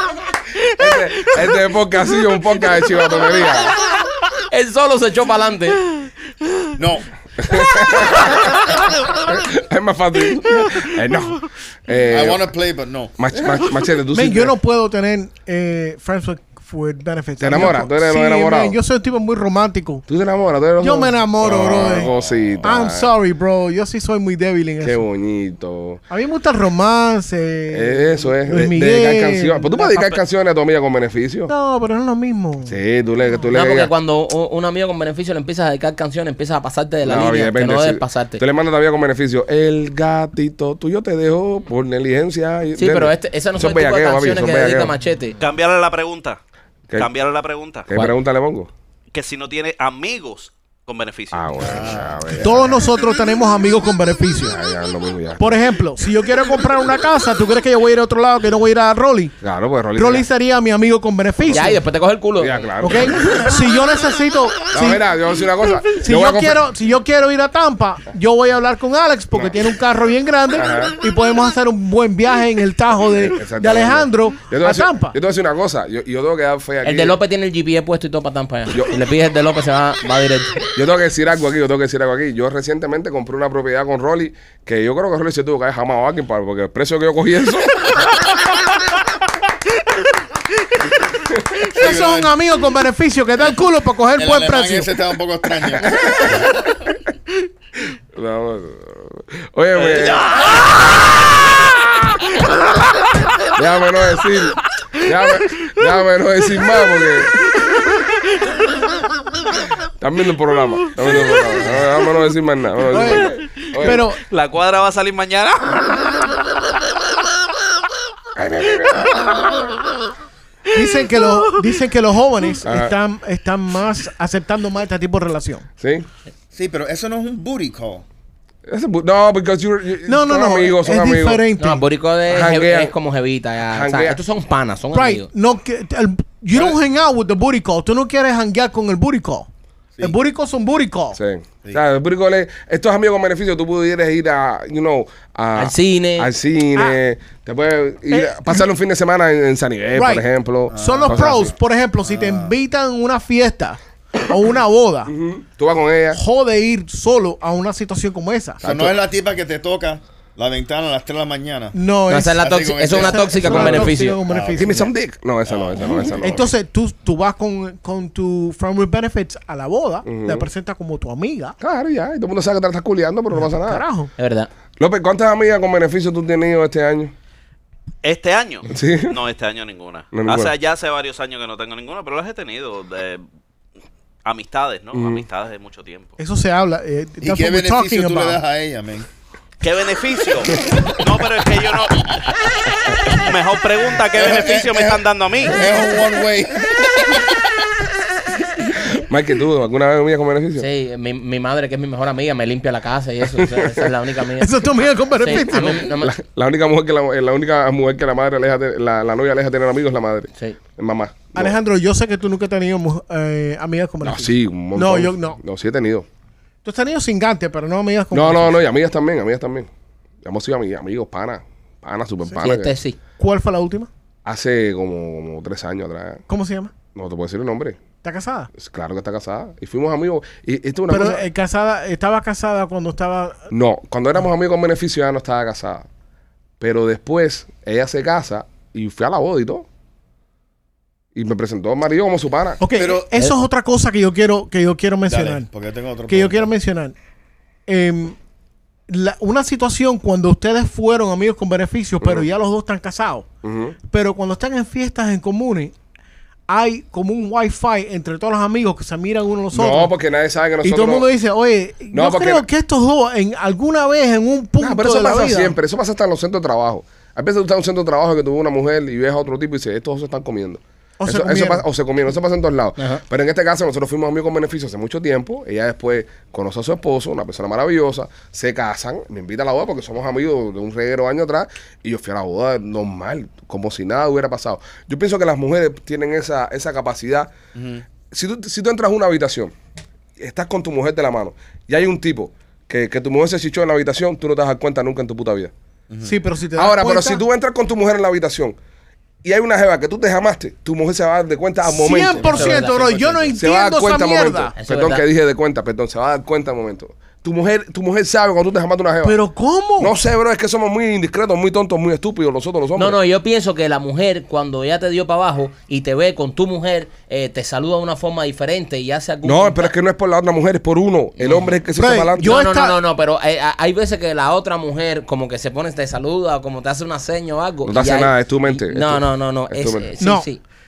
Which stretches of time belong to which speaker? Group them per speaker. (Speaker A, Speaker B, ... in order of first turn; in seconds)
Speaker A: 0.7-3.7, 7.4-12.5, 13.2-14.6, 17.4-18.8, 20.1-23.1, 24.8-26.0, 27.7-31.5, 32.7-33.9, 37.0-45.0, 47.9-48.7, 51.3-52.7, 54.4-55.6, 59.4-60.3, 62.4-63.5, 64.7-66.6, 70.6-71.0, 73.1-77.2, 80.8-88.2, 91.1-91.6, 95.8-96.5, 98.1-102.3, 103.5-107.4, 110.0-114.0, 118.3-119.7, 122.6-122.9, 125.8-126.1, 128.7-131.4, 132.3-132.9, 133.7-134.2, 141.1-151.5, 155.1-156.2, 158.6-159.0, 164.6-166.5, 170.1-170.5, 171.6-173.8, 174.8-177.1, 178.7-179.2, 180.1-180.5, 184.9-185.2, 198.8-200.7, 203.3-203.9, 206.0-211.6, 214.0-216.1, 218.1-219.7, 220.2-222.7, 224.2-226.2, 226.9-227.8, 228.6-231.3, 233.5-235.9, 236.6-239.7, 241.2-242.6, 252.0-252.3, 253.4-253.8, 259.5-261.1, 261.9-262.5, 264.6-287.3, 288.1-289.5, 290.2-295.5, 296.6-298.6, 299.2-302.5, 303.4-309.2, 309.8-313.0, 319.2-322.4, 327.6-329.9
Speaker B: 4.5-5.8, 33.5-38.4, 42.8-45.4, 61.5-62.6, 76.8-80.6, 131.6-135.3, 145.6-146.3, 162.1-164.2, 174.2-174.5, 200.6-206.1, 222.4-223.0, 302.1-303.0, 304.6-305.0, 312.8-319.7, 321.2-321.5, 322.2-330.4
Speaker C: 6.8-7.1, 12.1-13.1, 21.4-22.8, 51.6-52.7, 91.7-92.4, 94.2-97.0, 126.5-128.1, 150.7-152.6, 158.6-161.8, 162.4-164.9, 165.5-166.5, 187.2-189.1, 194.1-197.6, 242.7-243.1, 245.1-246.5, 287.5-287.9, 295.9-296.2, 302.2-303.4
Speaker D: 14.1-20.0, 20.8-22.1, 22.6-25.0, 26.1-30.0, 31.5-32.8, 52.4-54.6, 55.4-59.4, 60.0-61.8, 62.8-65.0, 65.9-75.2, 91.8-95.0, 112.9-114.2, 120.7-125.7, 130.1-131.9, 134.9-139.5, 140.0-141.2, 148.1-148.6, 149.9-155.1, 156.1-158.6, 161.7-164.9, 166.2-171.6, 173.4-174.1, 186.2-188.4, 204.4-206.0, 211.3-215.4, 216.6-218.6, 223.2-223.9, 226.3-226.7, 228.0-228.5, 230.9-233.4, 242.6-245.5, 246.1-246.9, 247.7-248.2, 248.9-253.3, 253.9-255.7, 256.5-259.9, 260.6-265.6, 271.0-271.6, 296.0-297.2, 301.6-304.5, 309.0-309.9, 321.8-322.8, 330.0-330.3
Speaker E: 45.4-46.4, 47.0-47.9, 49.1-51.9, 99.8-100.1, 111.1-111.5, 113.6-116.5, 178.0-183.2, 184.2-186.2, 189.6-192.2, 193.1-195.7